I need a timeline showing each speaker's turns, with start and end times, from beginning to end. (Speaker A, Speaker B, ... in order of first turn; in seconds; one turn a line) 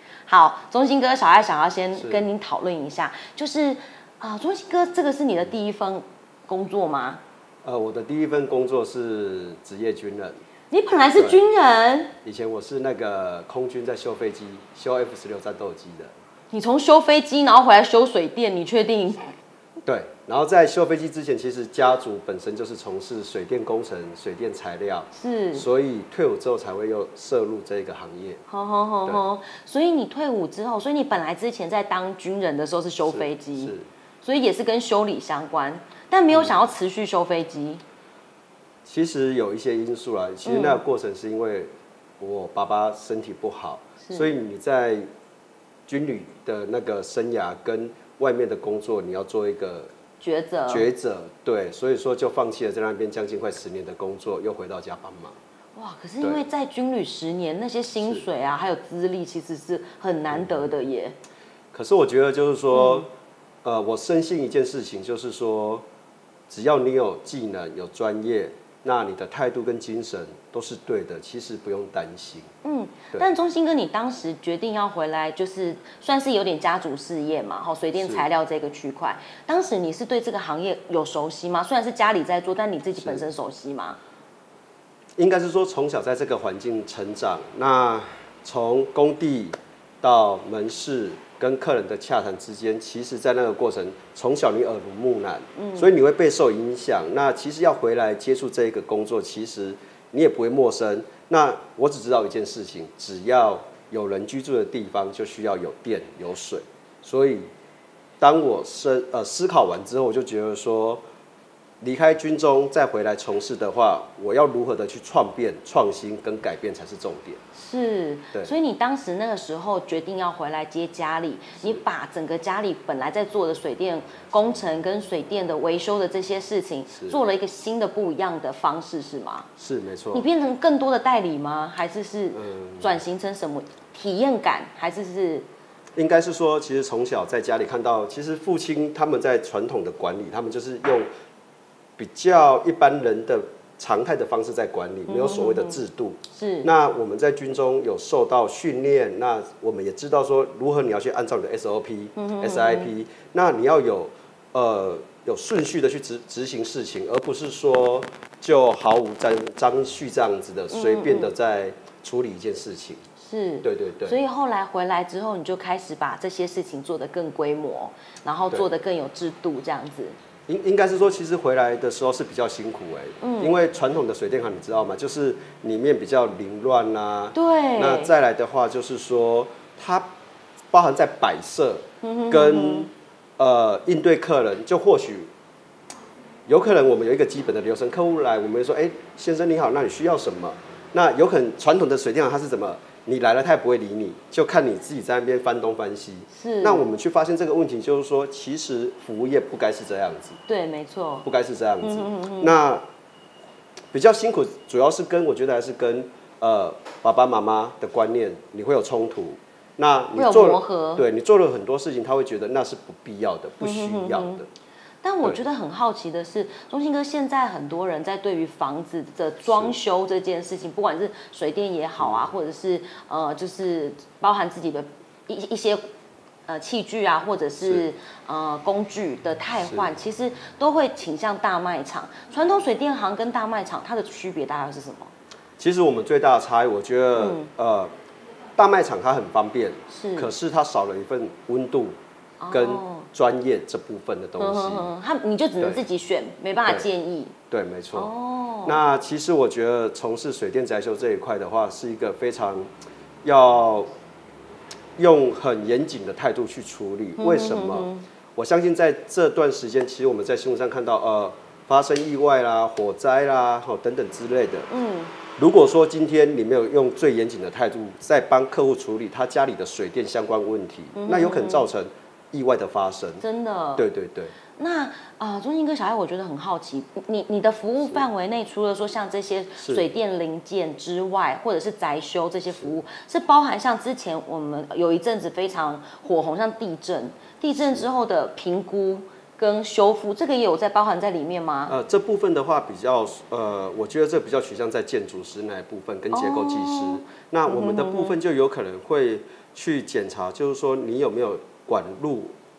Speaker A: 0.3-7.2
Speaker B: 1.9-2.2
Speaker B: 7.6-10.4
Speaker A: 10.7-12.1
Speaker B: 11.2-11.4
Speaker B: 12.2-16.1
Speaker A: 16.5-19.3
Speaker B: 19.8-28.4
Speaker A: 25.1-25.7
Speaker A: 28.5-37.8
Speaker B: 33.0-33.9
Speaker B: 38.8-45.1
Speaker A: 40.4-40.8
Speaker A: 44.0-44.3
Speaker B: 45.9-49.9
Speaker A: 50.2-50.9
Speaker B: 50.7-55.4
Speaker A: 55.7-61.1
Speaker B: 58.0-58.3
Speaker B: 60.3-60.7
Speaker B: 61.7-63.1
Speaker A: 62.7-63.0
Speaker B: 63.6-65.8
Speaker B: 66.5-72.5
Speaker A: 72.6-84.0
Speaker B: 78.0-78.3
Speaker B: 83.0-83.2
Speaker B: 85.2-107.5
Speaker A: 95.5-95.9
Speaker B: 108.2-111.0
Speaker B: 111.8-117.4
Speaker A: 117.5-129.5
Speaker B: 126.9-127.2
Speaker B: 129.6-130.3
Speaker A: 130.1-135.4
Speaker B: 132.3-133.0
Speaker B: 135.9-141.1
Speaker B: 142.0-163.0
Speaker A: 145.1-145.8
Speaker A: 146.3-146.7
Speaker A: 152.2-152.9
Speaker A: 160.7-161.3
Speaker A: 163.2-170.2
Speaker B: 163.6-164.2
Speaker B: 170.5-180.1
Speaker A: 173.2-173.6
Speaker A: 177.3-178.1
Speaker B: 180.7-185.3
Speaker A: 182.0-182.9
Speaker B: 186.5-200.4
Speaker A: 196.3-196.8
Speaker A: 200.5-201.2
Speaker B: 201.2-202.8
Speaker A: 201.8-202.6
Speaker B: 203.9-214.5
Speaker A: 210.1-211.1
Speaker A: 213.6-214.4
Speaker A: 215.0-225.8
Speaker B: 219.5-219.8
Speaker B: 222.0-222.3
Speaker A: 226.5-235.1
Speaker B: 229.6-229.9
Speaker B: 235.6-237.9
Speaker A: 237.2-237.5
Speaker B: 238.6-241.9
Speaker A: 239.9-240.3
Speaker A: 242.4-243.1
Speaker B: 242.5-244.9
Speaker A: 244.4-247.3
Speaker B: 247.5-248.1
Speaker A: 247.9-248.8
Speaker B: 248.6-252.7
Speaker B: 253.2-253.9
Speaker B: 255.0-264.7
Speaker A: 257.2-258.1
Speaker A: 264.7-265.1
Speaker B: 265.4-273.2
Speaker A: 270.9-271.7
Speaker A: 273.2-273.9
Speaker B: 273.8-274.3
Speaker A: 274.5-291.7
Speaker B: 279.6-279.9
Speaker B: 291.7-302.3
Speaker A: 296.1-298.2